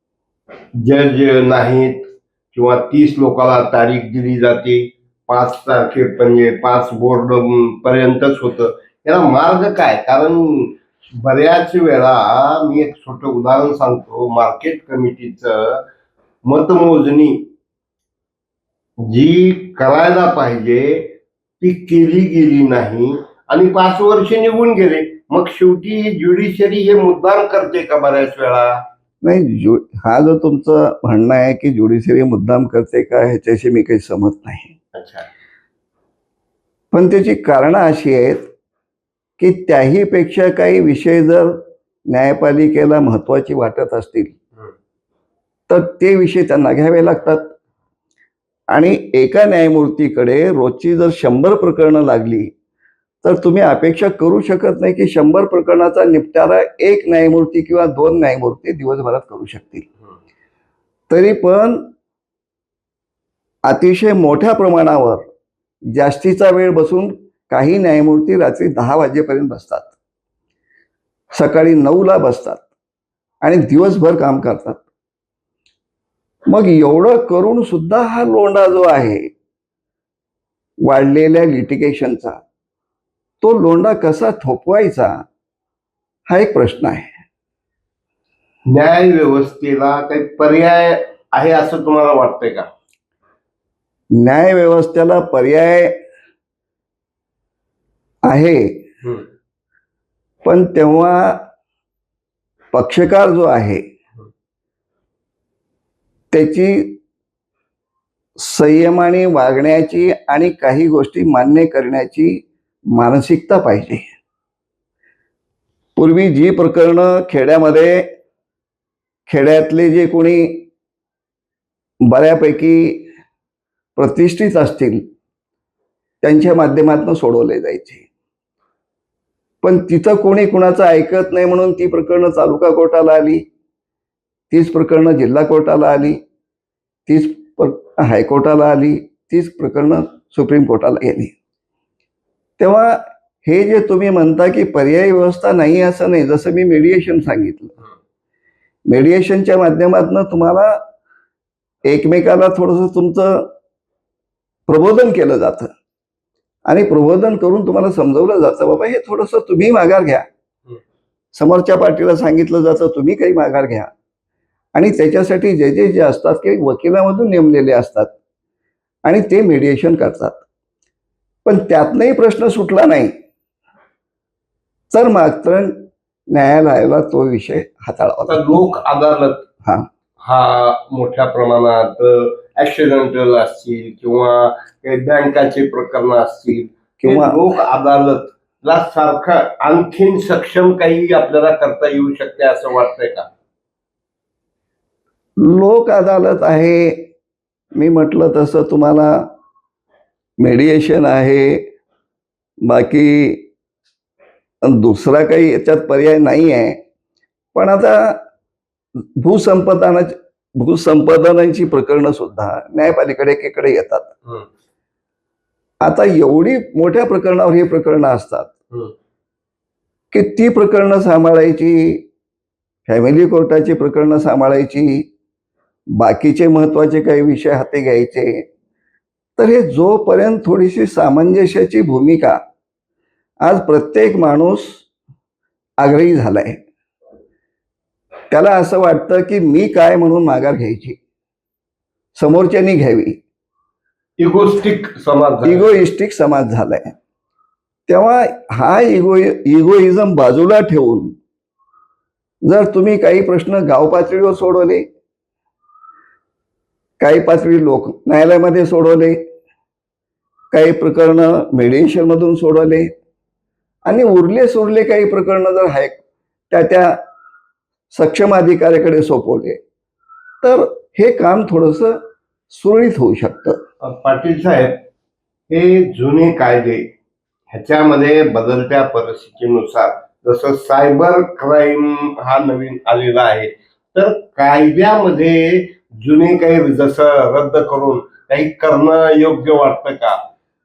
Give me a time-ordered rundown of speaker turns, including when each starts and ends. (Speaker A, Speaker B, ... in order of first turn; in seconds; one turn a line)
Speaker A: 0.8-15.8
Speaker A: 16.4-17.5
Speaker A: 19.1-28.8
Speaker B: 29.2-34.7
Speaker A: 34.9-35.3
Speaker B: 36.9-38.5
Speaker B: 39.4-44.3
Speaker B: 45.7-47.5
Speaker B: 48.7-52.5
Speaker B: 53.2-59.9
Speaker B: 61.1-61.9
Speaker B: 63.7-65.3
Speaker B: 65.9-69.9
Speaker B: 71.3-72.6
Speaker B: 73.4-74.8
Speaker B: 76.5-79.3
Speaker B: 80.8-82.4
Speaker B: 83.4-85.2
Speaker B: 86.3-87.1
Speaker A: 88.7-92.7
Speaker B: 94.2-96.0
Speaker B: 98.2-98.8
Speaker B: 100.4-101.4
Speaker B: 102.7-103.8
Speaker B: 106.3-107.0
Speaker B: 108.4-112.4
Speaker B: 112.9-114.1
Speaker B: 116.0-118.1
Speaker B: 119.3-120.7
Speaker B: 122.0-123.0
Speaker B: 124.0-125.0
Speaker B: 126.2-128.1
Speaker B: 129.6-133.4
Speaker B: 134.5-136.2
Speaker B: 137.1-141.3
Speaker B: 142.6-147.7
Speaker B: 148.9-150.8
Speaker B: 151.8-153.5
Speaker B: 154.7-155.7
Speaker B: 156.7-160.3
Speaker B: 161.3-163.9
Speaker B: 164.7-168.1
Speaker B: 169.0-170.4
Speaker B: 171.4-173.1
Speaker B: 174.9-178.6
Speaker A: 178.3-179.4
Speaker A: 180.2-193.3
Speaker B: 187.0-187.4
Speaker B: 195.4-197.1
Speaker B: 197.8-199.3
Speaker B: 200.4-201.7
Speaker B: 202.7-203.5
Speaker B: 204.6-206.8
Speaker B: 207.5-208.2
Speaker B: 209.2-214.1
Speaker B: 215.8-218.5
Speaker B: 220.1-222.1
Speaker B: 222.9-225.1
Speaker B: 226.0-228.4
Speaker B: 229.4-232.4
Speaker B: 233.4-234.8
Speaker B: 235.8-236.6
Speaker B: 238.3-241.0
Speaker B: 242.2-243.2
Speaker A: 244.2-245.8
Speaker B: 245.4-246.9
Speaker B: 247.9-251.1
Speaker B: 252.5-254.8
Speaker B: 257.0-259.2
Speaker B: 260.5-262.9
Speaker B: 263.8-267.0
Speaker B: 267.9-269.6
Speaker B: 270.4-272.0
Speaker B: 272.5-273.6
Speaker A: 273.8-274.8
Speaker A: 275.5-276.9
Speaker A: 277.5-290.2